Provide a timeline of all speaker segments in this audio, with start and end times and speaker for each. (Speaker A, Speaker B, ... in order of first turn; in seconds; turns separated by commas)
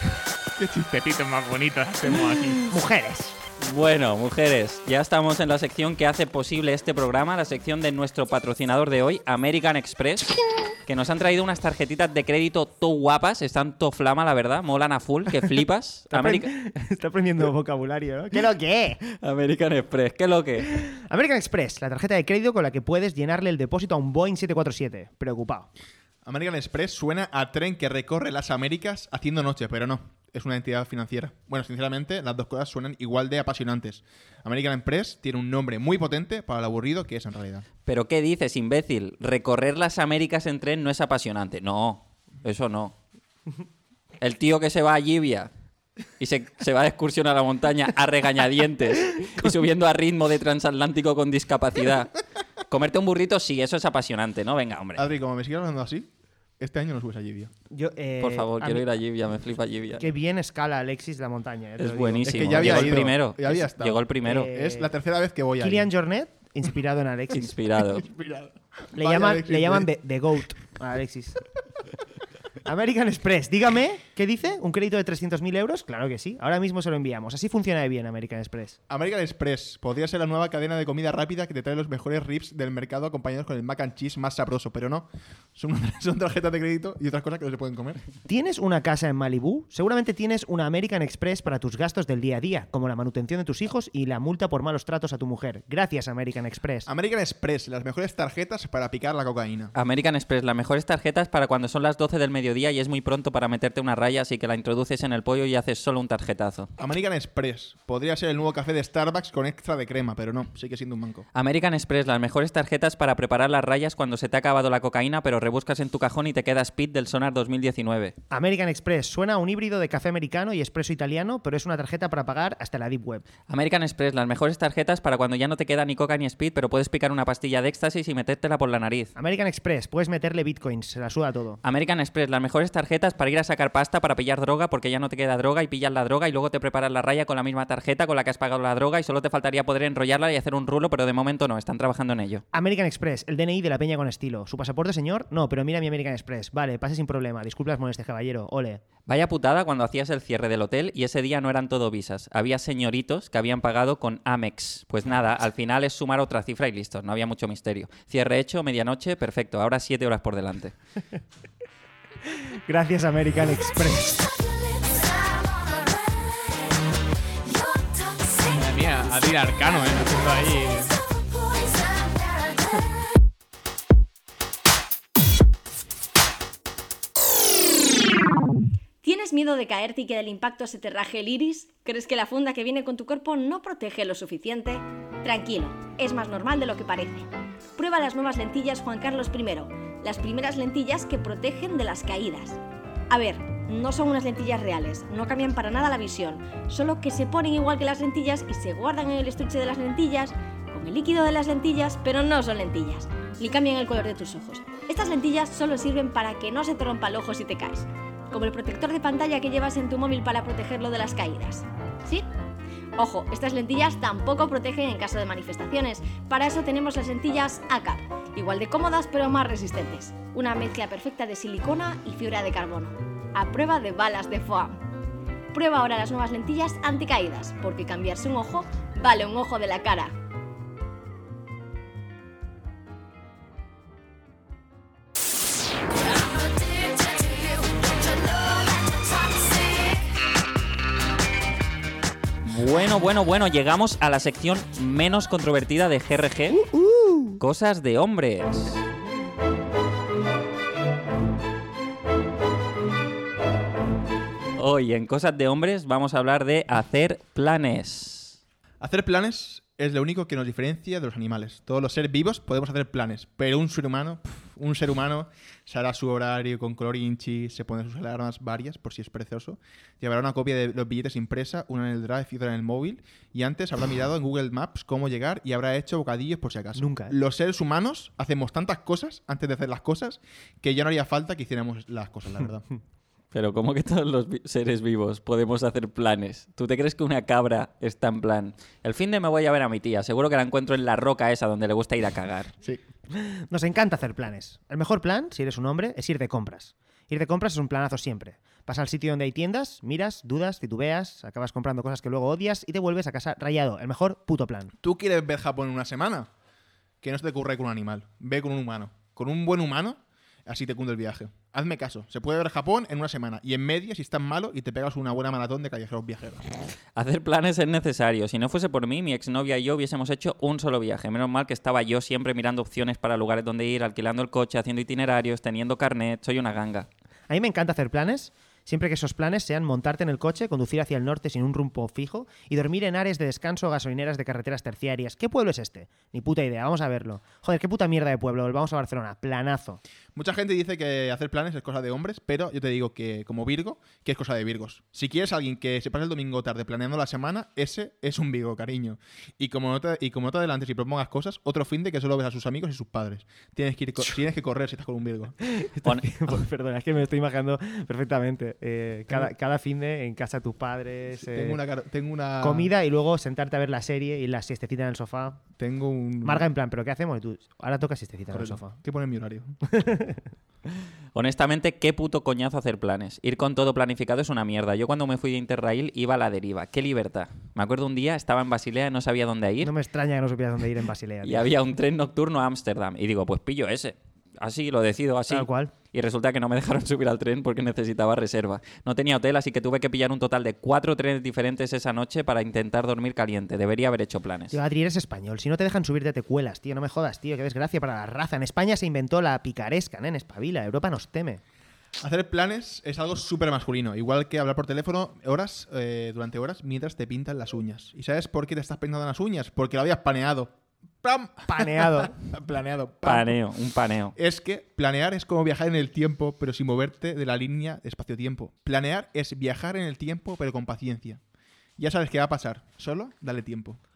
Speaker A: 0.5-2.6, Speaker B: 2.7-3.4, Speaker C: 3.6-16.5, Speaker B: 16.1-19.0, Speaker C: 19.2-20.8, Speaker B: 20.7-25.7, Speaker A: 26.2-37.6, Speaker C: 37.9-43.0, Speaker C: 44.2-45.5, Speaker C: 46.2-52.1, Speaker C: 52.7-55.0, Speaker A: 55.0-57.5, Speaker B: 57.7-58.8, Speaker C: 58.2-60.0, Speaker B: 60.0-63.0, Speaker C: 61.8-64.5, Speaker A: 62.2-65.9, Speaker B: 64.2-64.9, Speaker B: 65.6-67.5, Speaker C: 67.3-68.0, Speaker A: 67.8-69.9, Speaker B: 69.0-71.4, Speaker B: 72.6-78.8, Speaker A: 78.9-88.0, Speaker B: 88.2-96.9, Speaker A: 96.8-99.7, Speaker C: 99.7-106.7, Speaker A: 106.8-111.2, Speaker C: 111.3-118.1, Speaker B: 118.3-123.2, Speaker C: 123.5-129.1, Speaker B: 129.2-131.6, Speaker C: 131.6-142.4, Speaker B: 142.5-148.8, Speaker C: 149.1-160.7, Speaker B: 162.3-164.3, Speaker A: 168.4-171.0, Speaker D: 179.0-212.2, Speaker D: 213.0-224.8, Speaker D: 225.5-230.1, Speaker C: 242.4-246.6, Speaker B: 246.5-247.4, Speaker C: 247.4-248.8, Speaker C: 254.6-258.4, Speaker A: 258.8-282.7, Speaker B: 276.8-277.1, Speaker C: 283.3-292.5, Speaker B: 293.1-304.7, Speaker A: 304.8-306.3, Speaker A: 307.0-316.4, Speaker C: 316.9-326.9, Speaker B: 327.3-339.8, Speaker A: 340.1-355.3, Speaker B: 355.4-361.6, Speaker C: 355.8-356.1, Speaker A: 361.1-362.7, Speaker B: 362.4-365.4, Speaker A: 365.6-366.5, Speaker B: 366.2-368.7, Speaker A: 368.3-369.6, Speaker B: 369.7-370.2, Speaker C: 371.1-379.7, Speaker B: 379.6-381.5, Speaker C: 381.2-394.6, Speaker B: 385.3-385.7, Speaker B: 394.5-401.4, Speaker A: 402.0-413.3, Speaker B: 411.5-412.1, Speaker C: 413.0-414.1, Speaker A: 414.1-421.2, Speaker A: 421.8-423.8